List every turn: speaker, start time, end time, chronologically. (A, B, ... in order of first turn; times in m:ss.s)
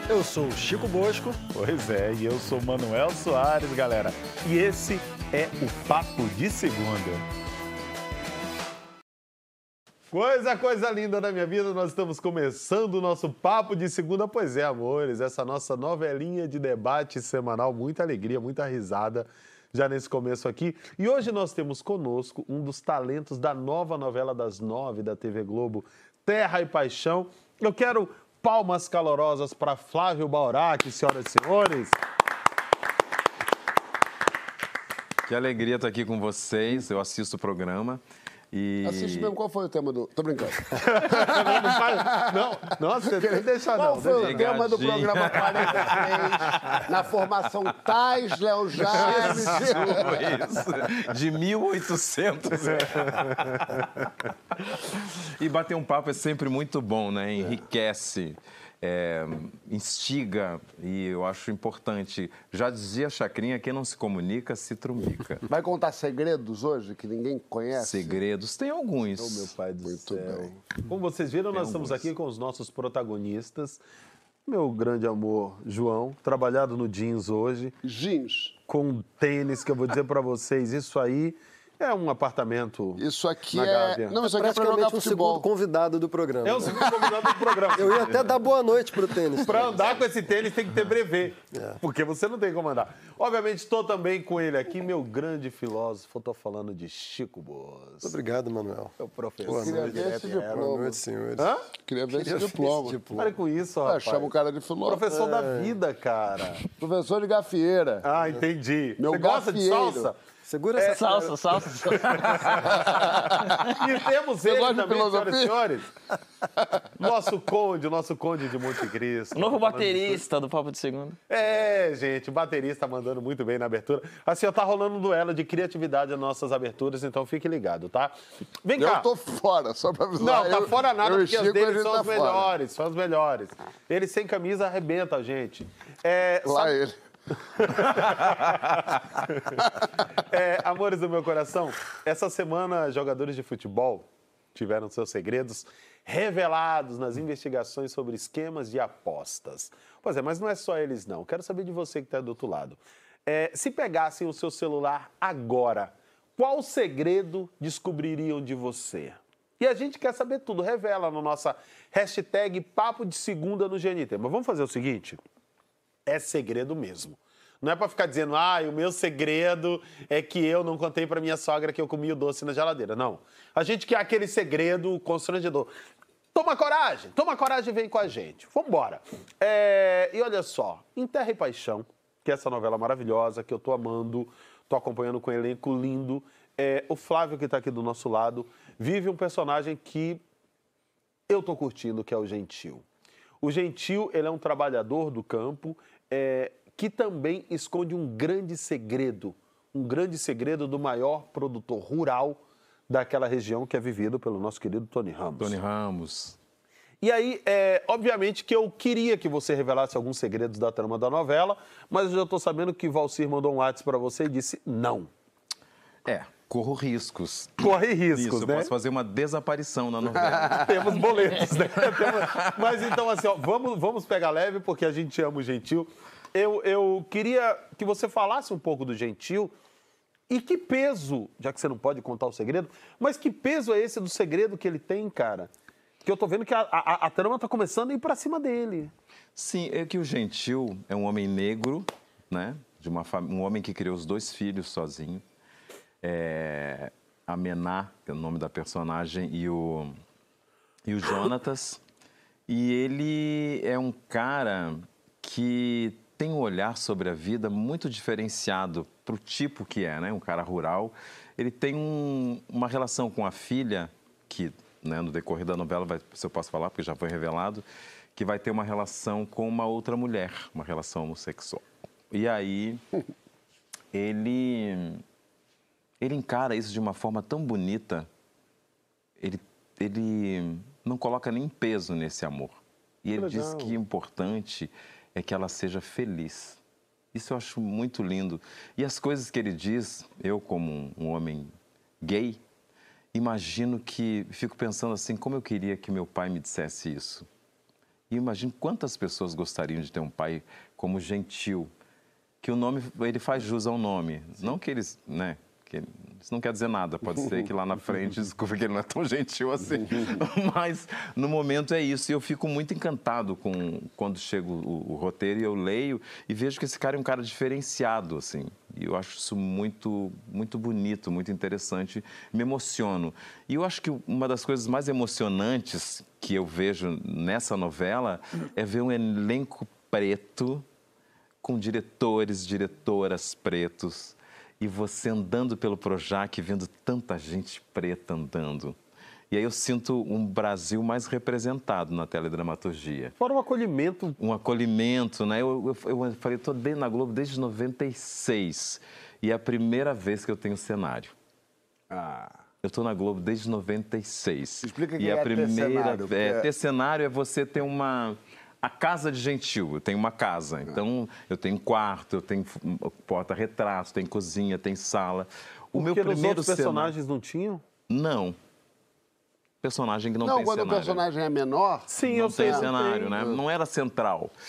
0:00.1-0:01.4 A
0:01.5-0:07.2 B
0:10.1-0:32.0 B
0:35.3-0:38.0 C
0:38.5-0:39.3 C
0:38.8-0:50.5 D
0:40.9-0:44.5 B
0:44.1-0:46.0 C
0:48.9-0:53.8 C
0:54.6-1:05.4 C
1:05.5-1:08.2 D
1:07.8-1:09.5 C
1:09.2-1:13.8 B
1:09.8-1:10.7 D
1:11.5-1:12.1 C
1:14.5-1:17.8 B
1:17.8-1:18.6 D
1:18.7-1:24.2 B
1:23.0-1:25.5 D
1:24.2-1:27.0 A
1:26.4-1:28.3 B
1:27.7-1:30.0 A
1:29.4-1:38.2 B
1:31.5-1:31.8 A
1:38.0-1:41.5 A
1:39.0-1:40.8 B
1:39.5-1:41.0 D
1:41.4-1:41.6 B
1:41.8-1:43.2 D
1:42.1-1:43.4 A
1:43.2-1:44.3 B
1:43.8-1:45.1 D
1:44.8-1:46.6 B
1:45.1-1:45.8 A
1:46.7-1:48.4 D
1:48.0-1:50.2 B
1:49.0-1:50.1 D
1:50.5-1:52.0 A
1:50.8-1:52.4 E
1:52.0-1:53.0 B
1:52.9-1:53.5 D
1:53.6-1:55.9 B
1:54.4-1:55.7 D
1:57.0-2:00.2 B
1:59.3-2:01.2 E
2:01.3-2:09.1 B
2:08.8-2:12.5 D
2:10.2-2:16.8 B
2:16.4-2:17.0 D
2:17.6-2:18.1 D
2:17.6-2:18.6 B
2:19.5-2:20.0 D
2:20.3-2:45.2 B
2:46.1-2:55.7 B
2:56.3-3:10.2 B
3:11.3-3:12.8 B
3:13.4-3:25.6 B
3:25.4-3:26.4 C
3:27.0-3:35.1 B
3:36.0-3:42.8 C
3:37.6-3:38.7 B
3:40.3-3:40.6 D
3:40.5-3:49.5 B
3:50.3-3:55.5 B
3:56.0-3:58.9 B
3:59.4-4:05.2 C
4:06.0-4:10.0 C
4:10.8-4:11.8 C
4:12.5-4:27.6 C
4:28.2-4:32.8 C
4:33.9-4:35.0 C
4:36.0-4:38.1 C
4:39.2-4:46.6 C
4:43.2-4:43.8 B
4:47.1-4:52.4 C
4:53.1-4:57.3 C
4:58.1-5:01.7 C
5:02.4-5:30.6 C
5:31.4-5:38.8 C
5:39.3-5:43.1 C
5:43.2-5:44.2 B
5:44.2-5:51.1 C
5:51.9-5:52.4 D
5:52.6-6:06.9 C
5:54.6-5:56.5 D
6:05.7-6:07.6 B
6:07.9-6:08.4 C
6:09.6-6:11.0 C
6:10.2-6:13.4 D
6:11.9-6:13.2 B
6:12.1-6:14.3 C